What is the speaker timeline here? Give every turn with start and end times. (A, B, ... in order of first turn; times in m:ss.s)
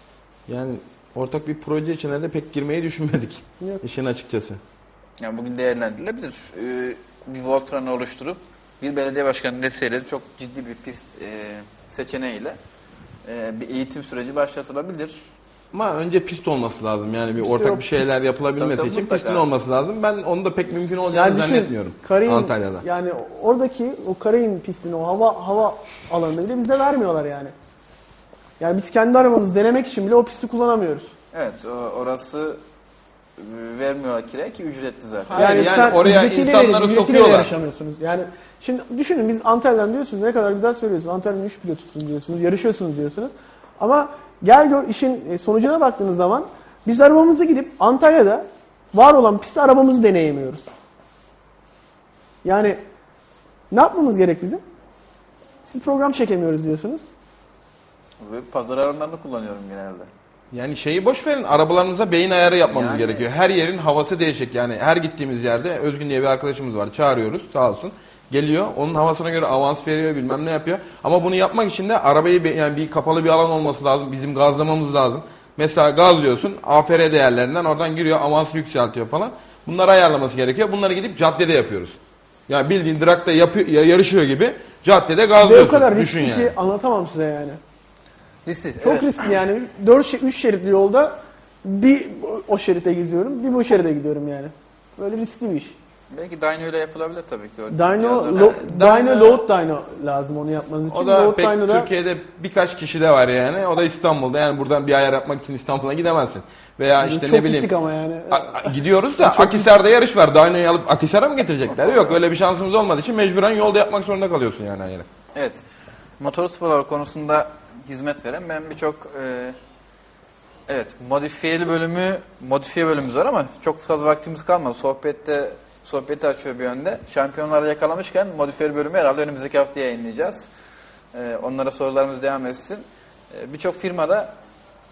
0:00.5-0:04.6 A
0:05.2-0:12.6 B
0:13.2-0:15.3 B
0:15.7-0:22.8 A
0:17.4-0:18.1 C
0:18.6-0:19.5 B
0:21.1-0:27.5 C
0:28.6-0:31.1 C
0:31.3-0:32.6 B
0:33.4-0:35.9 B
0:35.3-0:50.7 C
0:35.3-0:37.5 A
0:52.4-0:52.8 C
0:53.7-0:54.6 C
0:55.6-0:57.0 C
0:58.2-1:00.1 B
1:00.5-1:22.0 A
1:02.6-1:03.3 B
1:22.5-1:26.5 A
1:25.4-1:27.6 C
1:28.4-1:29.3 B
1:28.8-1:31.1 C
1:31.6-1:35.8 C
1:36.1-1:38.6 B
1:37.7-1:41.9 C
1:38.3-1:39.4 A
1:40.9-1:47.7 A
1:47.0-1:49.7 C
1:48.3-1:55.1 A
1:51.9-1:52.1 B
1:55.3-1:55.6 B
1:56.2-1:59.6 B
2:00.7-2:10.5 B
2:11.1-2:14.4 B